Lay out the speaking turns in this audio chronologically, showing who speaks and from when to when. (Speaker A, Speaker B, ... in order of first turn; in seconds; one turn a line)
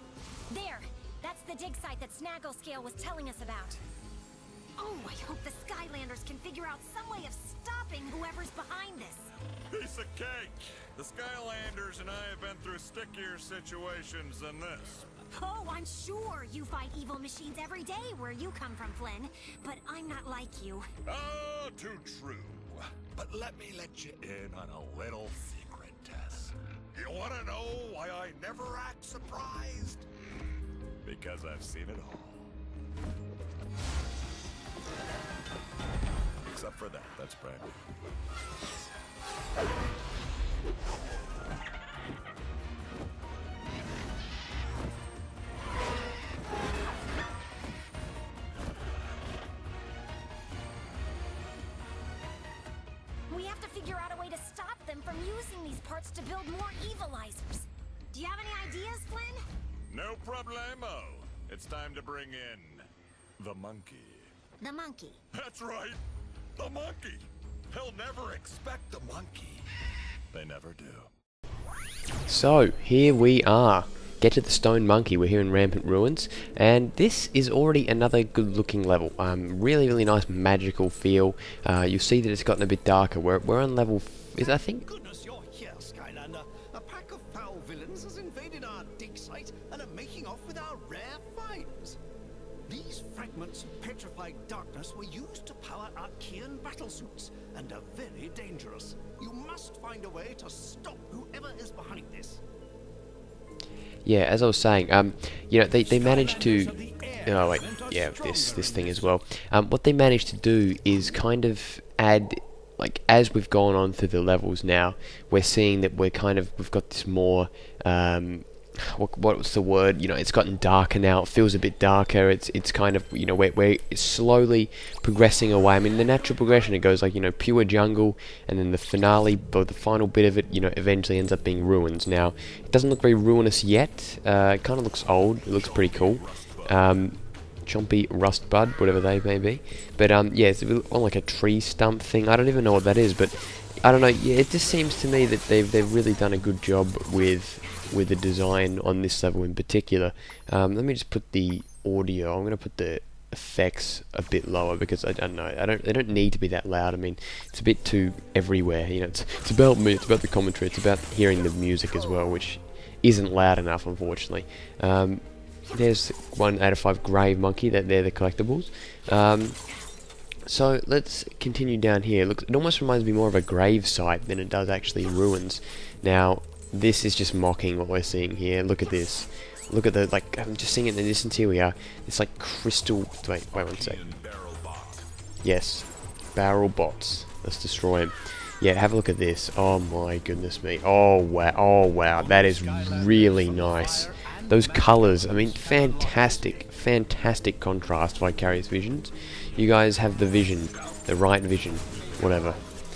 Speaker A: 0.5-3.8
Speaker A: 4.8-9.3
Speaker B: 9.7-15.1
Speaker A: 15.3-20.9
Speaker B: 21.0-30.1
Speaker B: 31.0-32.5
Speaker B: 36.5-37.8
Speaker A: 53.3-59.4
Speaker B: 59.9-62.9
Speaker B: 63.4-64.3
Speaker A: 64.6-65.2
Speaker B: 65.3-66.0
Speaker B: 66.6-69.7
Speaker B: 70.3-71.1
Speaker C: 72.2-84.8
Speaker D: 84.4-92.0
Speaker D: 92.7-102.4
Speaker C: 104.0-169.6
Speaker D: 105.8-109.1
Speaker B: 135.5-136.8
Speaker C: 170.4-184.0
Speaker B: 183.6-185.1
Speaker C: 185.4-202.6
Speaker D: 192.1-196.7